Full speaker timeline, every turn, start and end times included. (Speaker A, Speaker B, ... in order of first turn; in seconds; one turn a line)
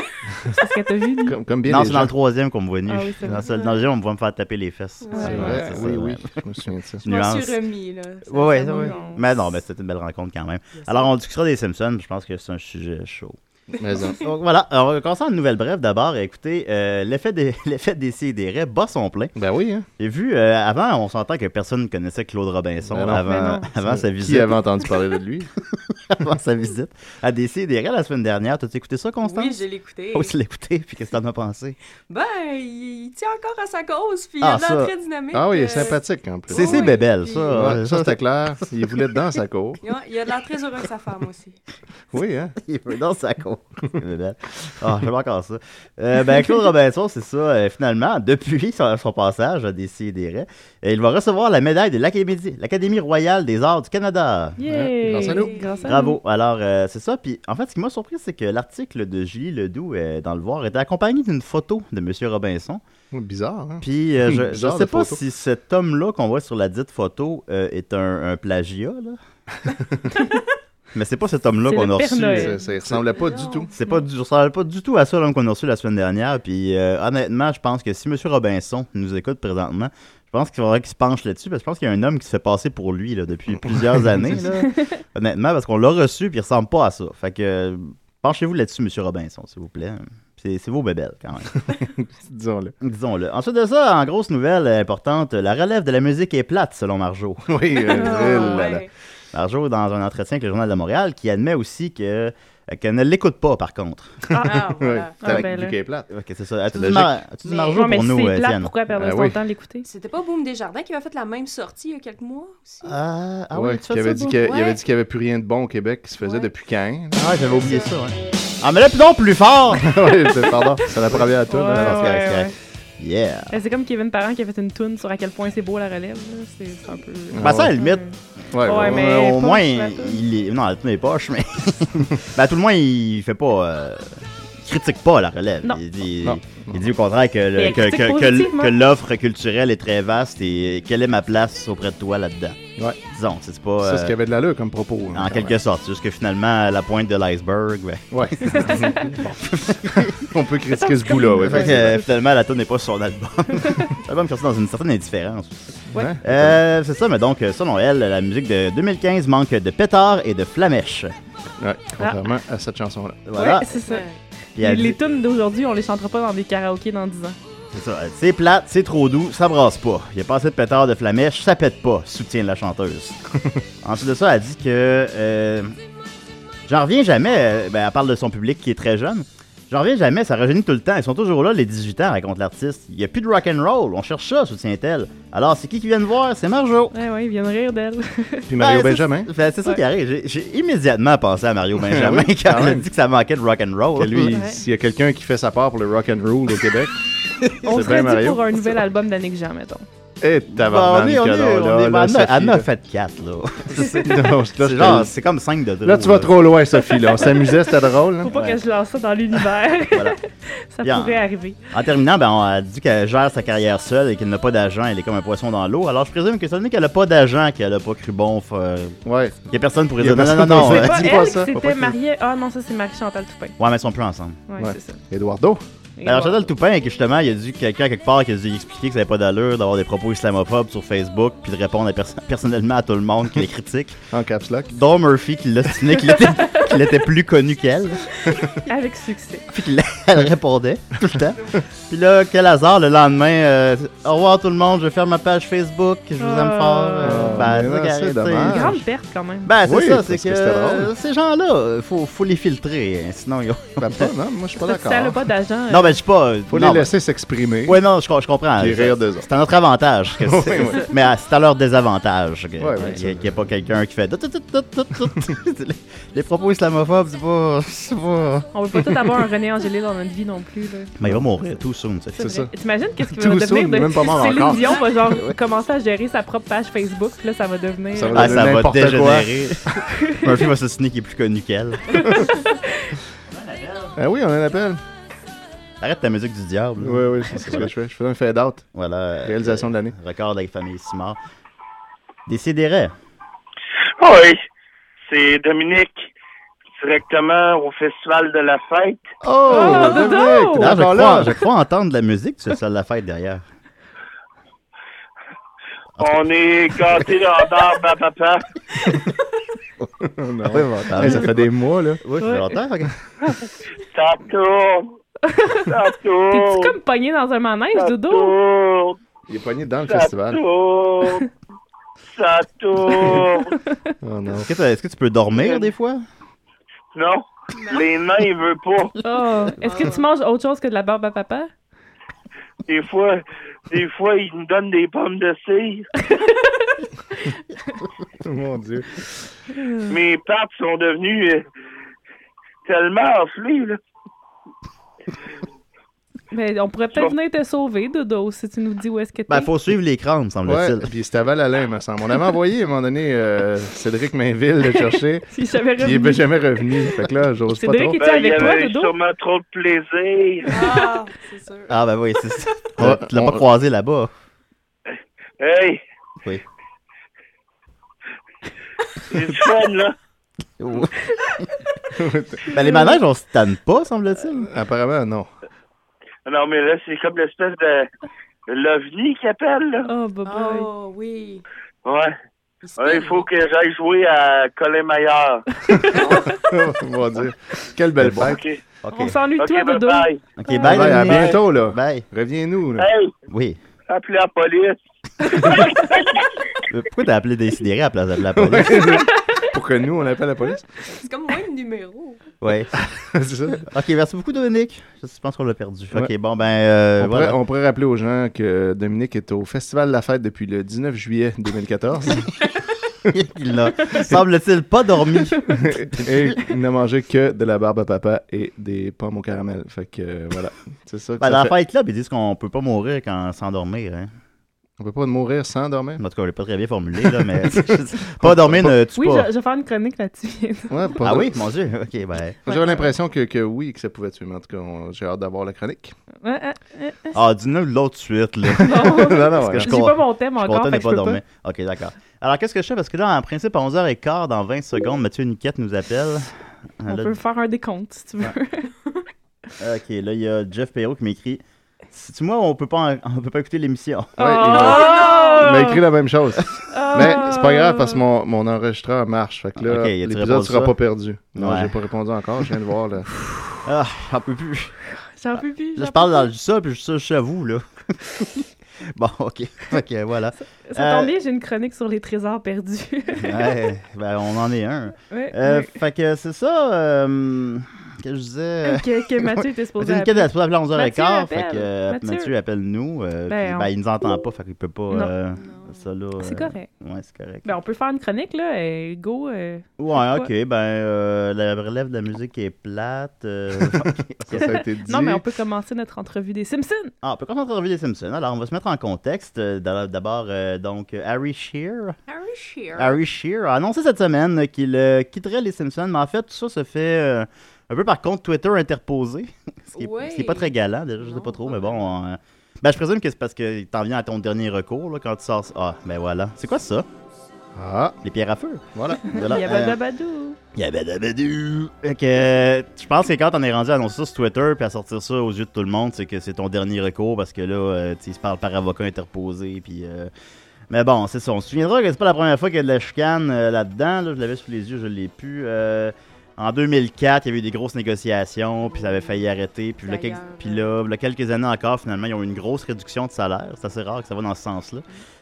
Speaker A: 0.6-1.4
Speaker B: 1.2-2.1
Speaker C: 1.6-6.4
Speaker A: 2.9-3.5
Speaker D: 5.0-5.4
Speaker A: 5.1-5.8
Speaker B: 5.2-7.0
Speaker C: 7.0-7.6
Speaker D: 7.0-9.1
Speaker C: 8.3-13.4
Speaker A: 8.6-9.2
Speaker D: 10.7-11.1
Speaker D: 13.7-14.2
Speaker B: 13.8-14.2
Speaker C: 14.2-19.3
Speaker B: 19.4-19.9
Speaker C: 20.0-24.6
Speaker B: 22.9-23.2
Speaker A: 23.2-23.7
Speaker B: 23.8-25.5
Speaker C: 25.9-29.6
Speaker D: 29.2-30.3
Speaker C: 30.1-31.8
Speaker D: 32.1-37.5
Speaker C: 34.4-34.9
Speaker B: 35.3-39.8
Speaker C: 36.5-38.2
Speaker D: 39.8-41.6
Speaker B: 42.1-42.5
Speaker C: 42.6-54.6
Speaker A: 54.6-56.2
Speaker B: 54.7-55.5
Speaker D: 55.2-55.9
Speaker C: 55.9-62.8
Speaker B: 63.1-65.2
Speaker C: 63.8-69.2
Speaker C: 70.9-73.0
Speaker A: 71.7-72.6
Speaker B: 72.2-73.7
Speaker D: 72.6-73.7
Speaker C: 73.7-91.5
Speaker B: 84.1-84.3
Speaker B: 91.5-92.7
Speaker C: 92.8-97.5
Speaker B: 97.5-98.8
Speaker D: 97.9-98.9
Speaker A: 98.0-98.7
Speaker C: 99.3-104.2
Speaker B: 104.3-106.1
Speaker D: 104.3-105.2
Speaker A: 105.2-105.8
Speaker C: 106.1-108.7
Speaker B: 106.7-107.1
Speaker A: 107.7-109.8
Speaker B: 108.9-109.3
Speaker D: 109.8-113.0
Speaker C: 112.8-114.4
Speaker B: 113.5-117.2
Speaker D: 114.4-114.8
Speaker D: 116.2-116.5
Speaker C: 117.1-120.1
Speaker D: 117.5-117.9
Speaker B: 119.8-122.2
Speaker C: 121.1-123.6
Speaker A: 121.5-122.5
Speaker A: 123.5-130.2
Speaker B: 127.3-127.7
Speaker C: 127.4-128.0
Speaker B: 128.5-129.1
Speaker C: 128.7-144.2
Speaker B: 136.2-136.8
Speaker A: 137.6-138.8
Speaker B: 143.8-145.6
Speaker C: 145.1-150.3
Speaker B: 148.1-149.3
Speaker A: 148.5-149.0
Speaker B: 149.9-152.0
Speaker A: 150.8-151.9
Speaker C: 151.5-161.1
Speaker A: 153.6-153.9
Speaker B: 155.9-156.6
Speaker B: 161.6-163.2
Speaker A: 162.0-162.2
Speaker C: 163.3-163.8
Speaker A: 163.3-167.4
Speaker D: 163.9-164.2
Speaker C: 164.6-165.0
Speaker C: 167.7-173.2
Speaker C: 173.8-175.8
Speaker C: 176.7-186.9
Speaker A: 186.9-188.5
Speaker B: 188.5-189.3
Speaker C: 188.6-194.3
Speaker B: 191.8-192.9
Speaker B: 193.9-198.6
Speaker A: 194.3-194.6
Speaker A: 197.6-199.8
Speaker B: 200.2-202.7
Speaker C: 200.5-206.5
Speaker B: 203.8-205.1
Speaker B: 205.8-208.3
Speaker A: 207.1-207.7
Speaker A: 208.2-211.7
Speaker C: 208.3-208.6
Speaker C: 209.9-210.2
Speaker C: 210.8-221.5
Speaker B: 219.0-219.4
Speaker B: 220.0-221.9
Speaker A: 220.6-223.6
Speaker C: 223.6-224.4
Speaker A: 224.5-225.0
Speaker B: 224.6-225.6
Speaker A: 226.0-226.5
Speaker C: 226.0-234.0
Speaker B: 234.1-234.7
Speaker C: 234.7-238.1
Speaker A: 236.2-236.7
Speaker A: 238.6-239.5
Speaker C: 239.5-248.7
Speaker A: 246.2-247.6
Speaker B: 247.0-248.8
Speaker A: 248.5-249.5
Speaker C: 249.4-254.1
Speaker B: 249.6-250.9
Speaker B: 253.8-255.2
Speaker A: 254.6-255.9
Speaker C: 255.7-256.9
Speaker B: 256.5-257.8
Speaker C: 257.6-268.5
Speaker B: 258.6-259.3
Speaker B: 260.2-260.9
Speaker B: 262.6-263.4
Speaker A: 268.5-270.9
Speaker C: 271.0-272.4
Speaker B: 272.2-272.5
Speaker A: 272.2-278.4
Speaker B: 273.1-274.9
Speaker B: 277.9-279.3
Speaker C: 278.1-282.2
Speaker A: 279.9-280.5
Speaker A: 281.9-282.9
Speaker C: 283.3-283.9
Speaker B: 284.0-284.8
Speaker C: 285.8-287.7
Speaker B: 286.8-288.6
Speaker C: 288.7-291.2
Speaker B: 289.2-289.9
Speaker C: 292.2-292.9
Speaker E: 294.0-294.4
Speaker E: 295.1-296.1
Speaker E: 296.8-299.1
Speaker B: 299.2-301.4
Speaker A: 299.5-300.8
Speaker C: 300.6-303.4
Speaker E: 306.0-308.5
Speaker B: 310.0-312.0
Speaker C: 310.4-311.5
Speaker C: 312.0-312.9
Speaker A: 312.2-312.6
Speaker E: 313.9-315.0
Speaker A: 315.3-315.7
Speaker E: 315.7-316.8
Speaker A: 316.3-318.4
Speaker E: 317.7-319.0
Speaker B: 319.3-320.4
Speaker E: 319.8-321.3
Speaker E: 322.1-323.5
Speaker A: 323.7-323.9
Speaker B: 324.0-324.5
Speaker C: 324.3-326.0
Speaker E: 326.9-328.9
Speaker D: 327.5-327.8
Speaker A: 329.0-331.5
Speaker D: 329.6-330.1
Speaker E: 332.7-335.9
Speaker B: 338.2-339.1
Speaker A: 339.6-339.9
Speaker E: 339.9-341.4
Speaker E: 342.6-343.8
Speaker A: 346.3-349.5
Speaker C: 349.3-350.9
Speaker B: 350.4-355.2
Speaker A: 354.8-358.9
Speaker B: 355.8-358.0
Speaker E: 358.0-360.6
Speaker D: 360.4-361.8
Speaker C: 361.7-364.1
Speaker B: 362.8-363.4
Speaker E: 365.4-365.8
Speaker E: 369.0-369.9
Speaker C: 370.6-371.4
Speaker B: 371.9-372.4
Speaker C: 372.5-374.5
Speaker A: 372.5-373.0
Speaker B: 374.4-375.3
Speaker E: 376.2-377.9
Speaker E: 378.5-379.9
Speaker A: 379.9-380.7
Speaker D: 380.2-381.4
Speaker E: 381.8-382.1
Speaker D: 382.6-383.3
Speaker E: 382.8-386.3
Speaker B: 386.5-388.4
Speaker C: 388.0-389.2
Speaker E: 388.2-388.6
Speaker A: 388.9-391.1
Speaker E: 389.4-390.2
Speaker C: 390.4-392.1
Speaker B: 390.6-392.9
Speaker E: 392.8-393.1
Speaker C: 393.3-393.6
Speaker E: 393.9-396.3
Speaker C: 396.7-399.1
Speaker B: 398.3-400.7
Speaker D: 400.9-402.2
Speaker C: 402.4-402.7
Speaker B: 402.8-403.6
Speaker C: 403.7-407.4
Speaker B: 407.0-412.3
Speaker C: 413.1-416.4
Speaker B: 415.5-421.5
Speaker C: 421.2-424.1
Speaker B: 424.8-426.0
Speaker C: 426.0-429.3
Speaker B: 427.5-428.7
Speaker A: 428.9-431.0
Speaker B: 430.7-431.3
Speaker C: 431.0-432.4
Speaker B: 432.4-435.9
Speaker A: 432.5-432.9
Speaker A: 436.2-437.2
Speaker C: 437.1-447.1
Speaker B: 438.6-439.7
Speaker A: 438.6-441.2
Speaker A: 446.9-448.7
Speaker C: 449.6-454.2
Speaker A: 454.2-455.8
Speaker B: 454.2-463.1
Speaker D: 454.5-455.5
Speaker A: 456.7-458.0
Speaker C: 459.6-460.7
Speaker C: 461.4-461.7
Speaker C: 463.6-464.8
Speaker A: 465.1-466.3
Speaker C: 465.3-471.1
Speaker A: 470.6-473.6
Speaker C: 473.2-487.5
Speaker A: 475.1-475.7
Speaker A: 478.6-482.3
Speaker A: 483.3-483.7
Speaker D: 485.3-485.9
Speaker A: 486.2-486.7
Speaker A: 487.4-490.3
Speaker C: 489.8-494.5
Speaker B: 494.3-495.2
Speaker A: 494.4-496.9
Speaker C: 497.0-502.0
Speaker D: 502.1-503.0
Speaker C: 502.8-516.9
Speaker D: 509.7-511.9
Speaker B: 517.5-518.0
Speaker C: 518.0-519.8
Speaker B: 518.7-519.2
Speaker A: 519.0-520.4
Speaker C: 520.5-530.1
Speaker C: 530.7-544.8
Speaker D: 538.6-539.3
Speaker D: 539.8-540.7